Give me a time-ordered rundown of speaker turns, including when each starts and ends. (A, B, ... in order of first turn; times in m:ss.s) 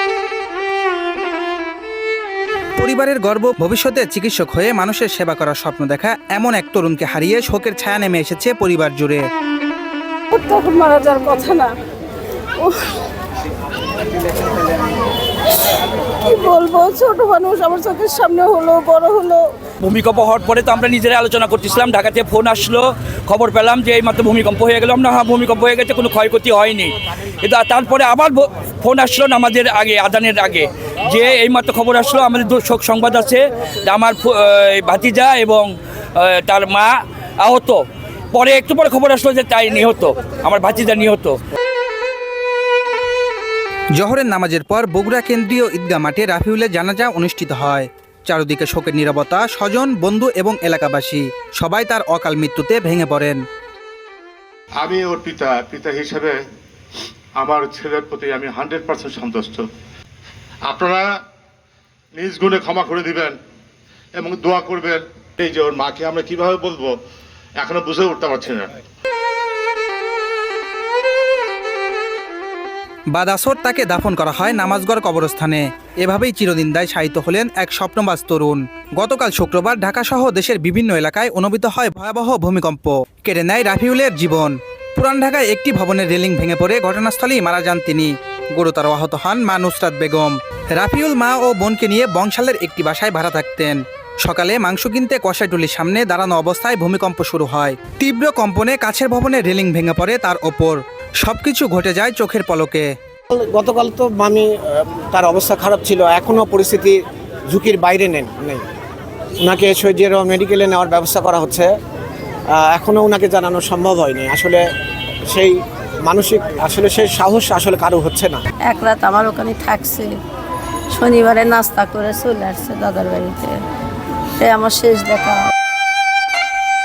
0:02.8-0:09.2 A
0:10.3-0:11.7 B
0:12.6-0:12.9 B
0:16.1-0:19.5 B
0:19.8-0:37.8 C
0:38.3-0:41.4 C
0:44.0-0:53.4 A
0:54.8-0:56.4 D
0:57.4-0:59.7 D
1:00.6-1:01.1 D
1:02.1-1:03.4 D
1:04.2-1:07.0 D
1:07.6-1:08.7 D
1:13.1-1:42.9 A
1:43.3-1:48.6 E
1:49.4-1:51.7 E
1:52.5-1:54.6 E
1:55.3-1:58.4 E
1:58.7-2:00.1 B
2:00.9-2:03.6 B
2:04.4-2:05.5 B